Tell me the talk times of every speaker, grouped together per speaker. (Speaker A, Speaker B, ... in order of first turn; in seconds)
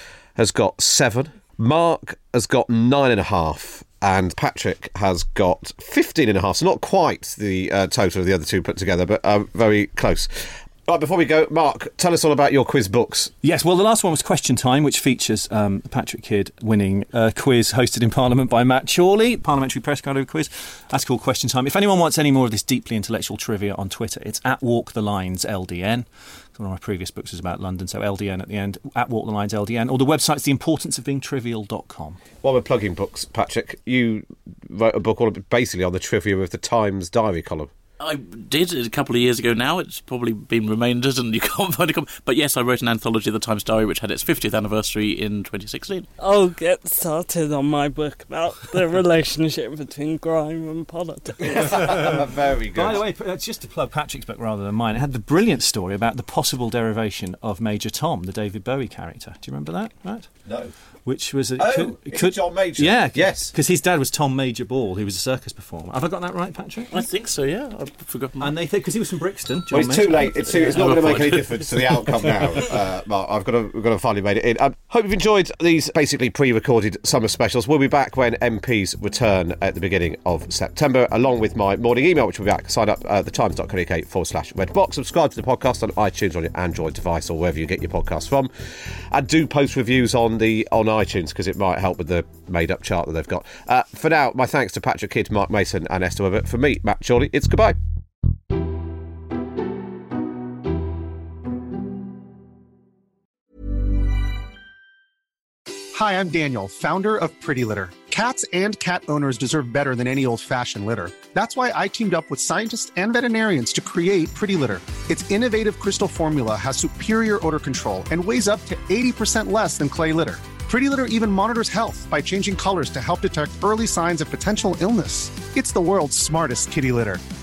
Speaker A: 0.4-13.3, 32.4-37.7, 51.5-53.0, 60.5-60.7, 61.6-63.5, 69.7-97.8
Speaker B: 13.4-32.2, 51.5-60.3, 61.1-67.0, 68.4-70.8
Speaker C: 38.0-46.1, 66.9-68.5, 70.4-72.2
Speaker D: 46.2-51.9
Speaker E: 105.9-127.2